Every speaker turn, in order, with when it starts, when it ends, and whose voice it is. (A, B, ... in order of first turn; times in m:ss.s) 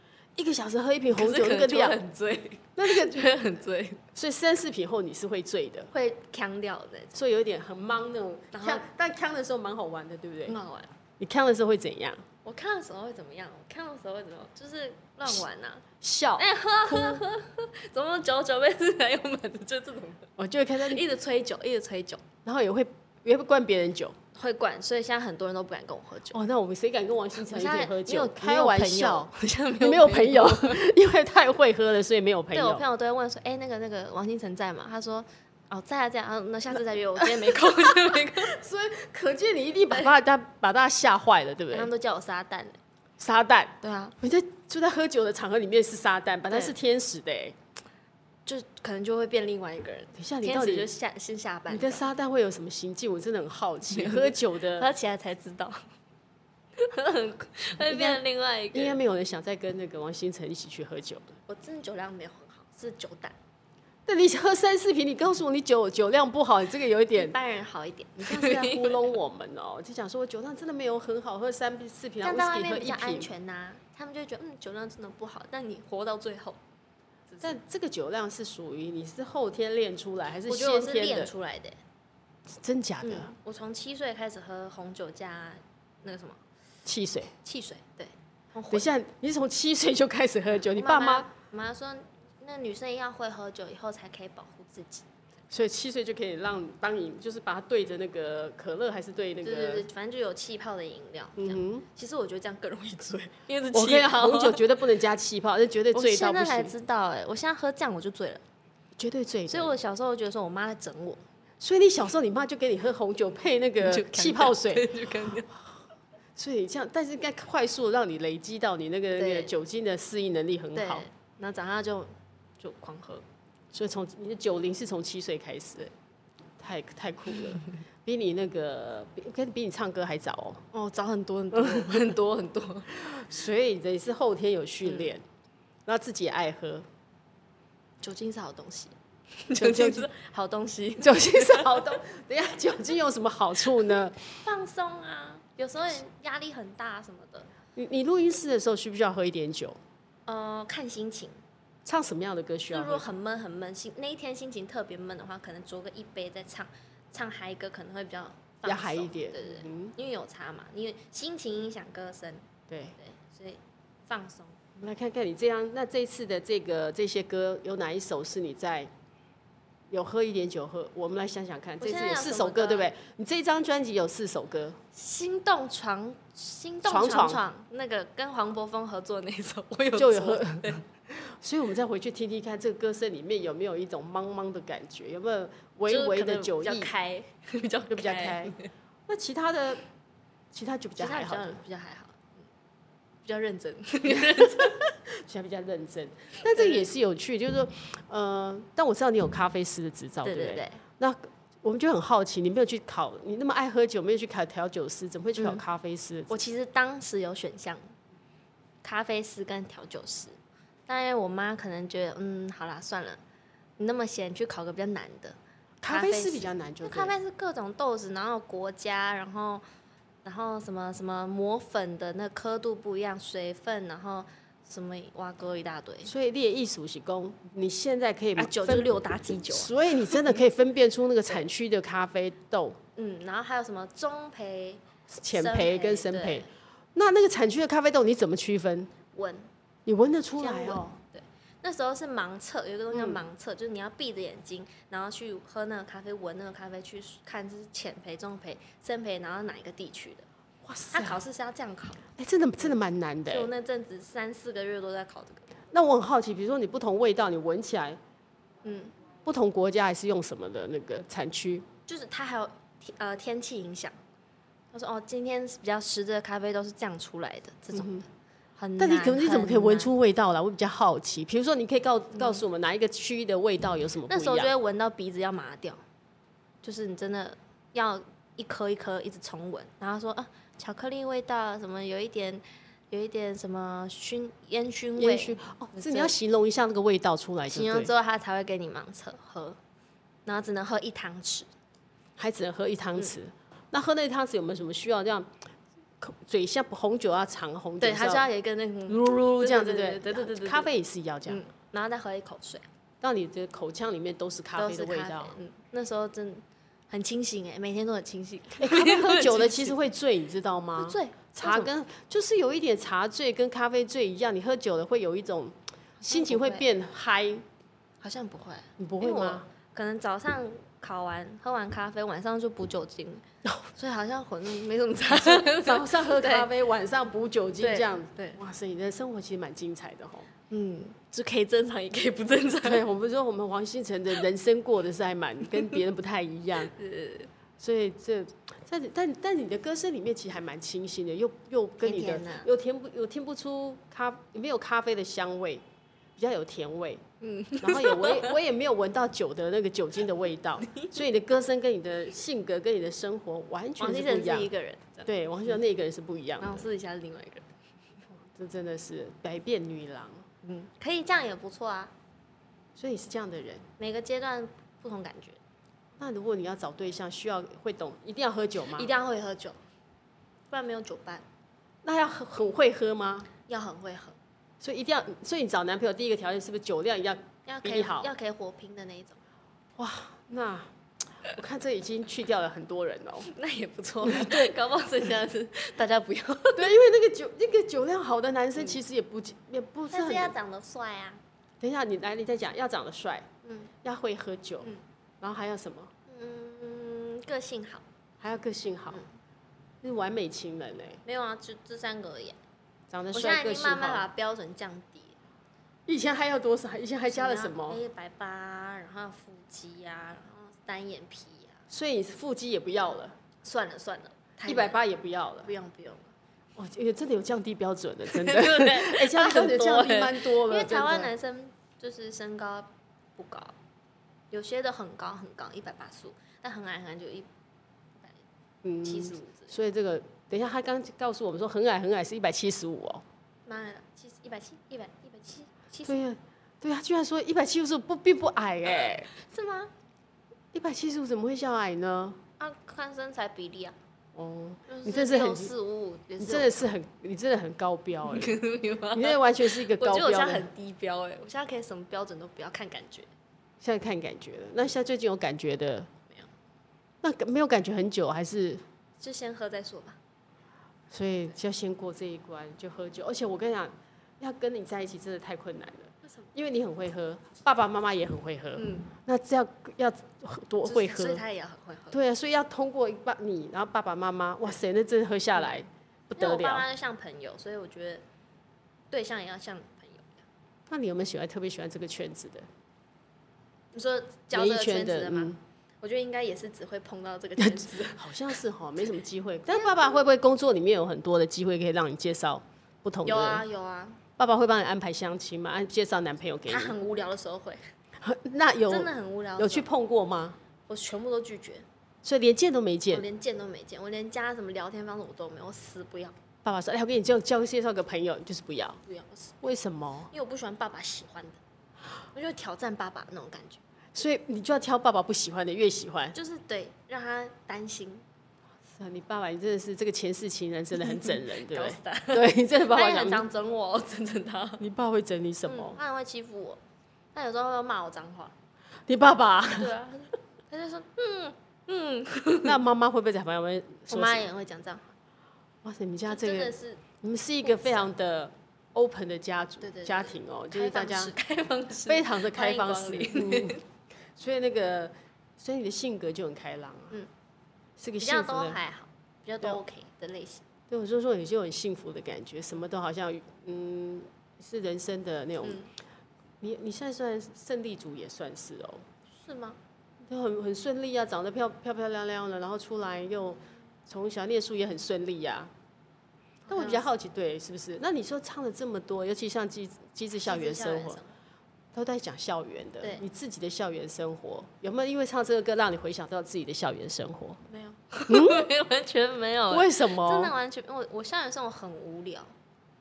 0:00.4-0:02.0 A
0:01.1-0:04.0 B
0:02.8-0:03.4 A
0:04.2-0:05.9 A
0:05.9-0:07.2 B
0:07.1-0:10.6 A
0:08.5-0:08.8 B
0:10.5-0:10.9 B
0:11.2-0:12.2 A
0:12.4-0:15.8 B
0:16.0-0:17.2 A
0:16.4-0:20.3 B
0:20.4-0:21.0 A
0:20.8-0:22.2 B
0:22.4-0:24.2 A
0:24.4-0:26.4 B
0:26.3-0:32.9 A
0:27.5-0:30.9 B
0:32.5-0:38.6 B
0:37.2-0:41.9 A
0:41.7-0:42.8 B
0:43.2-0:47.6 A
0:43.8-0:44.2 B
0:48.5-0:52.0 B
0:50.2-0:50.9 A
0:51.7-0:54.9 A
0:53.9-0:55.8 B
0:56.8-0:59.0 B
0:57.8-1:01.4 A
1:01.5-1:03.4 B
1:04.1-1:07.4 A
1:07.1-1:09.1 B
1:08.2-1:13.3 A
1:12.2-1:16.6 B
1:17.3-1:17.6 B
1:17.4-1:21.3 A
1:20.5-1:21.8 B
1:22.5-1:23.3 A
1:23.0-1:26.4 B
1:26.9-1:27.3 A
1:27.4-1:28.9 B
1:28.7-1:31.3 A
1:30.7-1:35.1 B
1:35.5-1:39.9 A
1:39.4-1:44.7 B
1:41.4-1:41.8 A
1:43.7-1:46.7 A
1:45.9-1:48.4 B
1:49.0-1:49.8 A
1:49.5-1:51.2 B
1:51.6-1:54.9 A
1:53.8-1:55.5 B
1:56.4-2:01.0 A
1:59.2-1:59.5 B
2:00.8-2:03.2 B
2:03.7-2:05.9 A
2:06.6-2:10.6 A
2:10.7-2:12.9 B
2:11.5-2:12.1 A
2:12.9-2:15.2 A
2:14.9-2:15.1 B
2:15.9-2:16.9 A
2:18.0-2:22.0 B
2:19.6-2:20.1 A
2:21.0-2:24.3 A
2:24.4-2:27.5 B
2:27.8-2:29.8 A
2:30.3-2:31.4 B
2:31.8-2:33.0 A
2:32.7-2:42.4 B
2:38.6-2:40.0 A
2:42.7-2:43.0 A
2:43.0-2:44.6 B
2:44.8-2:48.9 A
2:49.9-2:54.8 A
2:51.8-2:52.9 B
2:54.9-3:00.8 B
2:56.8-2:57.4 A
3:00.0-3:06.9 A
3:05.9-3:08.7 B
3:07.9-3:08.6 A
3:09.1-3:09.8 A
3:10.5-3:11.6 A
3:11.0-3:12.4 B
3:13.2-3:15.0 B
3:14.1-3:26.4 A
3:16.5-3:16.9 B
3:20.2-3:20.8 B
3:25.4-3:25.6 B
3:26.3-3:27.9 B
3:28.8-3:30.4 B
3:30.9-3:33.2 B
3:33.8-3:39.6 B
3:35.8-3:37.2 A
3:40.2-3:46.1 B
3:46.0-3:48.9 A
3:48.4-3:50.2 B
3:49.5-3:52.8 A
3:53.0-3:56.5 B
3:55.1-3:58.9 A
3:59.1-3:59.5 B
3:59.9-4:01.0 A
4:00.4-4:10.3 B
4:02.9-4:03.2 A
4:10.6-4:11.2 A
4:10.9-4:12.0 B
4:12.2-4:13.5 A
4:13.3-4:15.5 B
4:15.7-4:18.0 A
4:18.6-4:18.9 B
4:19.2-4:21.7 A
4:21.9-4:24.0 B
4:24.7-4:28.1 B
4:27.7-4:28.0 A
4:28.6-4:29.9 B
4:28.8-4:34.5 A
4:32.2-4:32.4 B
4:34.1-4:35.8 B
4:36.6-4:46.1 B
4:45.0-4:47.9 A
4:47.5-4:49.6 B
4:50.3-4:51.5 B
4:52.2-4:55.3 A
4:56.0-4:58.3 A
4:57.8-5:00.7 B
4:58.9-5:01.4 A
5:01.3-5:02.7 B
5:03.0-5:05.4 A
5:04.6-5:09.8 B
5:08.6-5:17.4 A
5:10.8-5:11.7 B
5:16.0-5:16.7 B
5:18.0-5:26.5 B
5:18.8-5:19.5 A
5:25.1-5:30.3 A
5:27.6-5:28.4 B
5:30.5-5:32.8 B
5:32.6-5:36.7 A
5:36.7-5:37.3 B
5:37.6-5:45.6 A
5:41.8-5:42.5 B
5:46.2-5:47.0 A
5:47.2-5:48.4 B
5:47.6-5:54.5 A
5:50.7-5:50.9 B
5:53.8-5:55.1 B
5:55.1-5:56.7 A
5:56.4-5:57.5 B
5:58.2-6:00.2 A
6:00.4-6:01.9 B
6:02.8-6:03.7 A
6:03.8-6:05.4 B
6:06.0-6:08.9 A
6:08.7-6:09.6 B
6:10.5-6:11.2 B
6:11.8-6:13.3 A
6:13.5-6:14.2 B
6:14.6-6:18.1 A
6:17.5-6:19.2 B
6:19.8-6:20.7 A
6:21.2-6:23.3 A
6:23.2-6:26.7 B
6:24.0-6:24.5 A
6:26.6-6:30.4 A
6:29.9-6:31.2 B
6:31.6-6:33.3 A
6:33.4-6:33.7 B
6:33.8-6:35.9 A
6:36.1-6:37.8 B
6:38.2-6:39.0 A
6:39.8-6:41.0 A
6:41.0-6:42.4 B
6:42.9-6:44.1 A
6:43.1-6:45.2 B
6:45.9-6:47.8 A
6:47.1-6:51.6 B
6:51.7-6:53.2 A
6:53.4-6:54.8 B
6:54.5-6:55.5 A
6:55.4-6:56.1 B
6:56.6-7:01.1 A
6:58.1-7:03.6 B
7:04.3-7:07.3 B
7:08.6-7:13.0 A
7:08.8-7:09.6 B
7:13.5-7:16.0 B
7:15.8-7:19.1 A
7:19.1-7:19.7 B
7:20.5-7:22.2 A
7:22.4-7:23.8 B
7:24.2-7:25.5 A
7:24.7-7:26.7 B
7:26.2-7:28.4 A
7:28.0-7:33.1 B
7:28.9-7:30.5 A
7:33.6-7:35.9 A
7:37.0-7:38.6 A
7:39.0-7:40.0 B
7:40.9-7:51.2 A
7:48.6-7:48.9 B
7:50.6-7:52.0 B
7:51.9-7:56.7 A
7:56.2-7:58.0 B
7:58.9-8:00.2 B
8:00.7-8:02.5 A
8:03.7-8:08.4 B
8:04.3-8:05.4 A
8:07.4-8:13.4 A
8:09.5-8:10.0 B
8:13.0-8:14.0 B
8:14.2-8:16.8 A
8:16.5-8:17.6 B
8:18.0-8:20.4 A
8:18.7-8:19.7 B
8:20.7-8:21.6 B
8:22.0-8:23.0 A
8:22.9-8:26.2 B
8:26.4-8:28.8 A
8:28.9-8:29.4 B
8:29.4-8:30.1 A
8:30.1-8:31.4 B
8:32.1-8:33.6 B
8:34.0-8:36.2 A
8:36.1-8:38.0 B
8:38.7-8:43.3 A
8:40.8-8:44.6 B
8:44.6-8:45.8 A
8:45.5-8:46.6 B
8:47.1-8:48.3 B
8:48.9-8:49.7 A
8:49.5-8:52.6 B
8:52.4-8:54.3 A
8:53.9-8:55.0 B
8:55.6-9:01.1 A
8:56.1-8:56.8 B
8:57.4-8:57.9 B
8:59.6-9:03.6 B
9:01.9-9:03.6 A
9:04.2-9:07.0 A
9:07.8-9:08.6 A
9:08.0-9:10.4 B
9:10.7-9:15.6 A
9:15.4-9:15.7 B
9:16.4-9:18.8 A
9:19.1-9:19.6 B
9:20.1-9:25.5 A
9:26.5-9:26.9 B
9:26.5-9:31.0 A
9:30.2-9:31.1 B
9:31.7-9:37.4 A
9:37.5-9:42.3 B
9:38.1-9:38.5 A
9:39.5-9:40.3 A